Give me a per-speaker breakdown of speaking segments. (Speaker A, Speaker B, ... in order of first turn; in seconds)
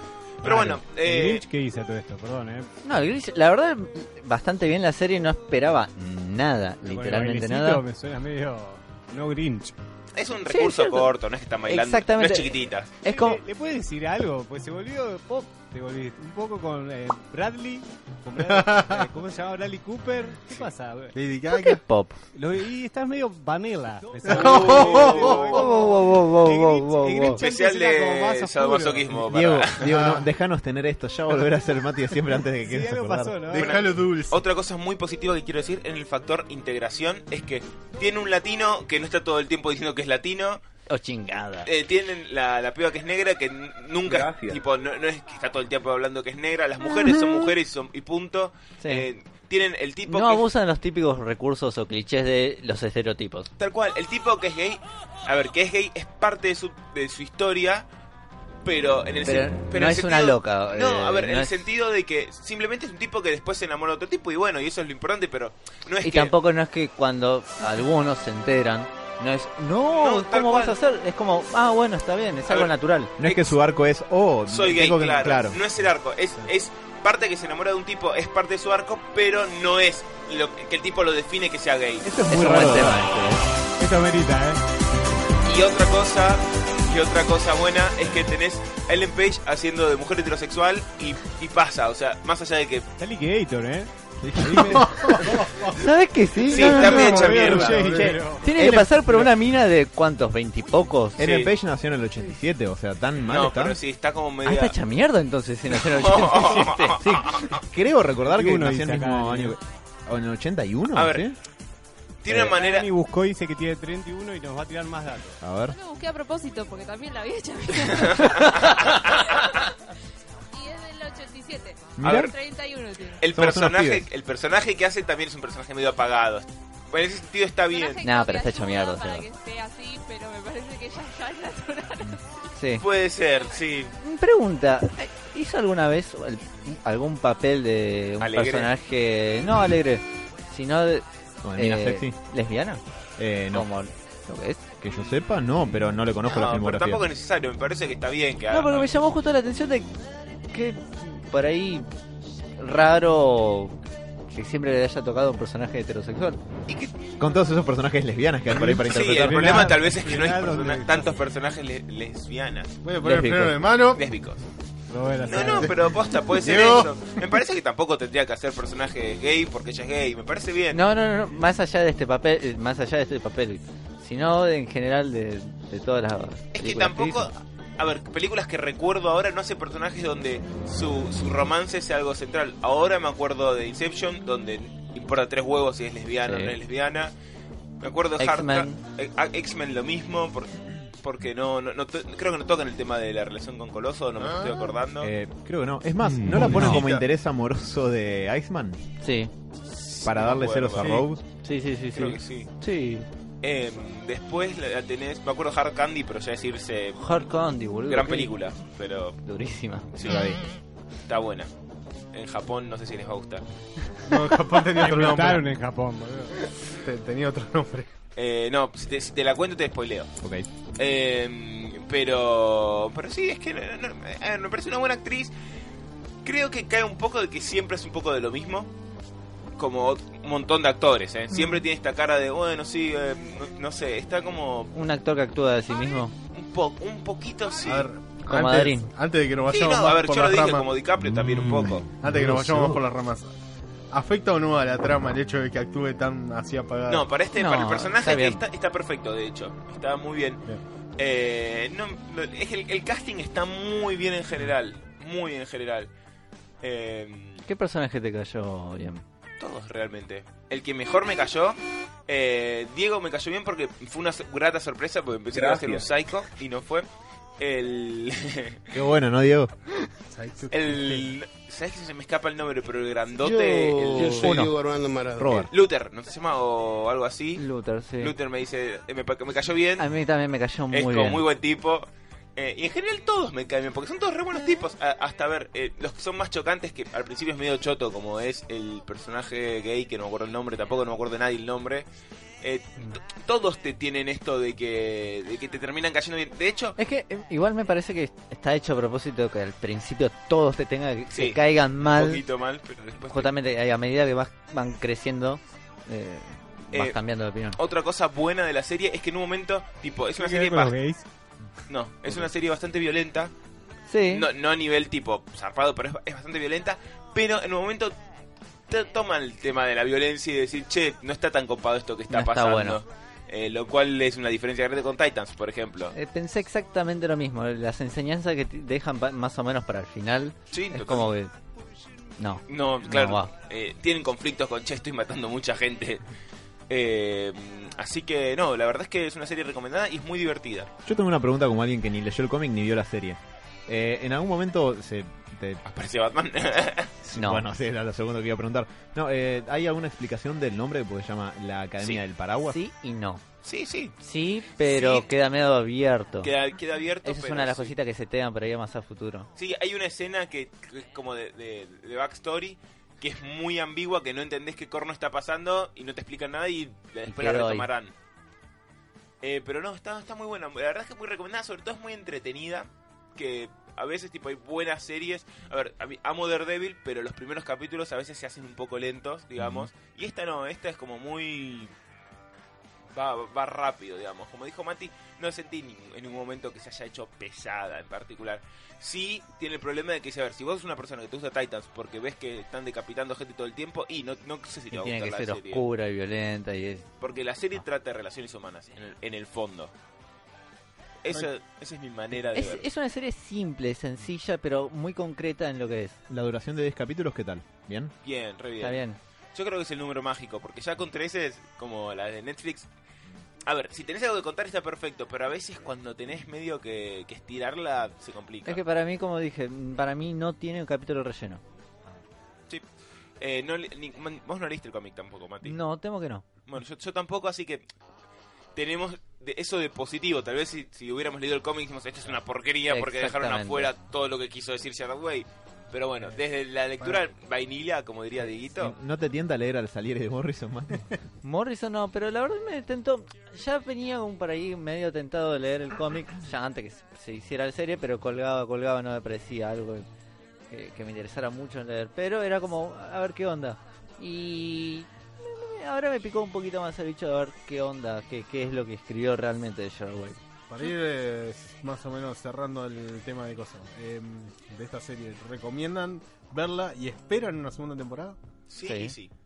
Speaker A: 0.4-1.4, 10.2-12.9, 24.2-25.6, 27.4-29.9, 33.5-40.6, 41.6-50.5, 53.6-57.9, 58.6-66.3, 69.9-70.8, 72.5-73.6, 74.5-82.1, 85.4-92.9, 96.5-98.1, 101.2-101.5, 103.3-104.8, 105.7-107.6, 111.0-111.3, 112.2-112.9, 117.9-119.5, 122.0-122.3, 123.2-128.0, 132.8-133.9, 138.2-138.7, 144.9-145.2, 146.2-148.9, 156.7-156.9, 158.8-162.8, 163.9-164.4, 165.2-170.8, 176.6-187.1, 187.8-195.1, 199.7-201.0, 201.9-202.5, 203.4-207.1, 207.9-209.2, 209.9-210.2, 211.1-211.5, 212.1-213.4, 218.2-220.1, 220.8-225.3, 226.2-228.7, 229.6-234.7, 236.3-237.9, 239.5-241.9, 246.9-250.4, 251.0-255.9, 256.6-257.4, 259.4-266.9, 267.4-268.7, 270.5-274.4, 275.5-277.4, 278.0-279.9, 280.7-291.9, 292.4-296.8, 301.1-303.4, 307.6-310.8, 311.7-313.3, 314.1-318.0, 318.7-325.9, 330.5-331.1, 332.5-336.0, 336.7-340.7, 345.6-346.9, 353.4-354.0, 354.6-355.1, 356.2-357.7, 359.4-367.9, 369.2-381.7, 382.9-395.6, 397.0-399.7, 401.0-402.6, 408.0-408.8, 409.3-412.7, 413.5-418.6, 423.2-425.6, 426.5-427.6, 428.6-438.8, 468.5-469.1
Speaker B: 0.4-2.7, 6.9-9.8, 13.1-21.1, 22.4-29.3, 32.6-33.8, 83.8-84.6, 93.0-95.2, 96.6-98.5, 108.2-109.6, 112.4-115.4, 159.0-161.2, 164.9-165.8, 214.7-216.3, 310.2-311.1
Speaker C: 2.9-7.8, 10.5-11.1, 11.7-13.4, 21.5-22.2, 25.5-27.4, 40.9-41.7, 48.8-49.1, 50.1-53.5, 59.2-61.6, 66.0-73.1, 82.3-83.5, 95.7-97.4, 98.1-101.2, 104.5-107.5, 128.0-129.3, 132.6-132.8, 134.0-141.0, 141.6-142.8, 143.5-144.7, 148.5-150.0, 150.5-151.9, 152.6-153.8, 154.3-156.4, 163.0-163.7, 170.7-177.3, 186.3-186.6, 188.2-188.8, 196.4-196.8, 199.0-199.3, 201.4-203.1, 207.0-208.3, 209.2-209.9, 234.7-236.1, 238.3-238.9, 247.4-248.4, 257.5-259.0, 274.0-274.5, 277.4-278.1, 279.8-281.2, 296.8-302.2, 303.1-307.6, 313.9-314.3, 322.1-322.8, 325.9-331.3, 332.2-333.3, 347.1-347.5, 352.4-353.2, 354.0-356.3, 357.0-359.3, 367.1-367.7, 394.7-396.9, 402.3-406.0, 408.6-409.0, 418.4-421.4, 425.4-426.2, 432.7-433.7, 441.2-449.9, 450.5-460.2, 468.6-468.9
Speaker D: 18.4-19.1, 21.1-21.8, 24.2-25.6, 29.8-30.2, 33.5-34.4, 94.8-95.7, 96.5-98.2, 162.8-164.0, 165.4-165.7, 166.3-166.9, 194.2-194.7, 196.2-197.1, 214.0-215.5, 216.4-217.9, 237.7-240.7, 242.0-243.3, 243.9-247.1, 270.1-271.1, 460.5-468.2
Speaker E: 29.3-33.5, 73.2-75.6, 82.0-83.1, 94.2-95.1, 98.5-99.3, 101.2-103.8, 107.1-111.4, 115.4-115.8, 122.0-122.3, 123.3-124.1, 141.4-142.2, 143.2-143.7, 144.8-147.1, 157.2-159.7, 195.0-198.8, 200.0-201.2, 210.0-210.4, 220.2-220.5, 241.2-242.8, 268.7-269.5, 275.2-275.5, 340.9-345.6, 347.0-352.6, 379.4-379.7, 406.1-407.9, 438.6-441.0
Speaker F: 44.1-44.6, 265.3-265.9, 273.2-275.5
Speaker G: 115.7-118.8, 119.3-119.6, 120.5-123.3, 127.7-132.3